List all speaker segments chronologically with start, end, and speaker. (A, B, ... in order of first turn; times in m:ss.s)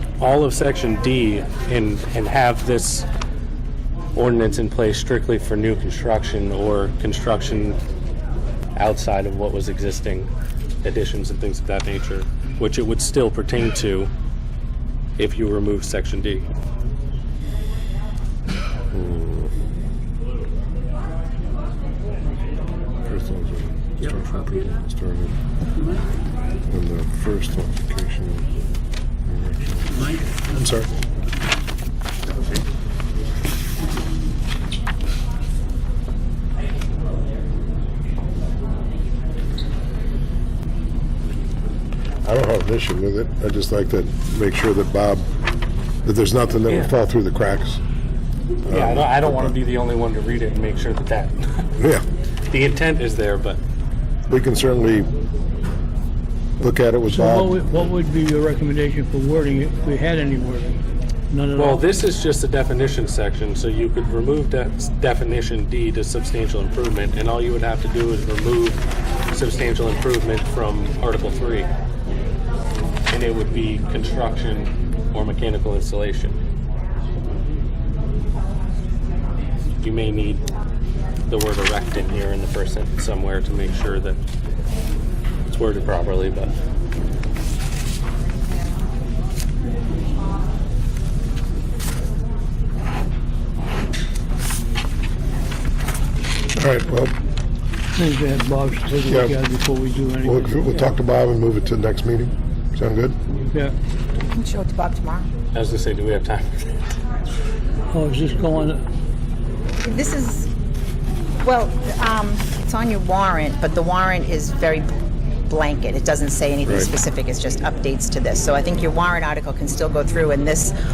0:00.2-0:03.1 A
0:04.1-0:07.8 A
0:08.7-0:10.3 A
0:10.8-0:14.1 A
0:15.2-0:16.5 A
0:18.9-0:19.5 B
0:23.0-0:25.3 B
0:26.7-0:28.5 B
0:29.3-0:30.9 B
0:42.2-0:45.2 B
0:46.0-0:47.8 B
0:48.7-0:49.5 B
0:48.7-0:51.7 A
0:51.8-0:52.0 B
0:52.5-0:53.6 A
0:54.3-0:55.1 B
0:56.6-0:57.6 B
0:57.1-1:00.8 C
1:01.3-1:01.8 C
1:01.6-1:08.8 A
1:09.3-1:11.7 A
1:13.1-1:16.4 A
1:19.8-1:20.4 A
1:21.3-1:24.2 A
1:25.5-1:26.5 A
1:36.5-1:37.1 B
1:38.0-1:40.9 C
1:39.1-1:39.3 B
1:40.2-1:43.2 B
1:43.4-1:43.7 C
1:44.3-1:45.2 D
1:45.5-1:46.7 A
1:47.9-1:48.8 C
1:49.8-1:50.5 D
1:51.4-1:54.9 D
1:55.5-2:00.7 D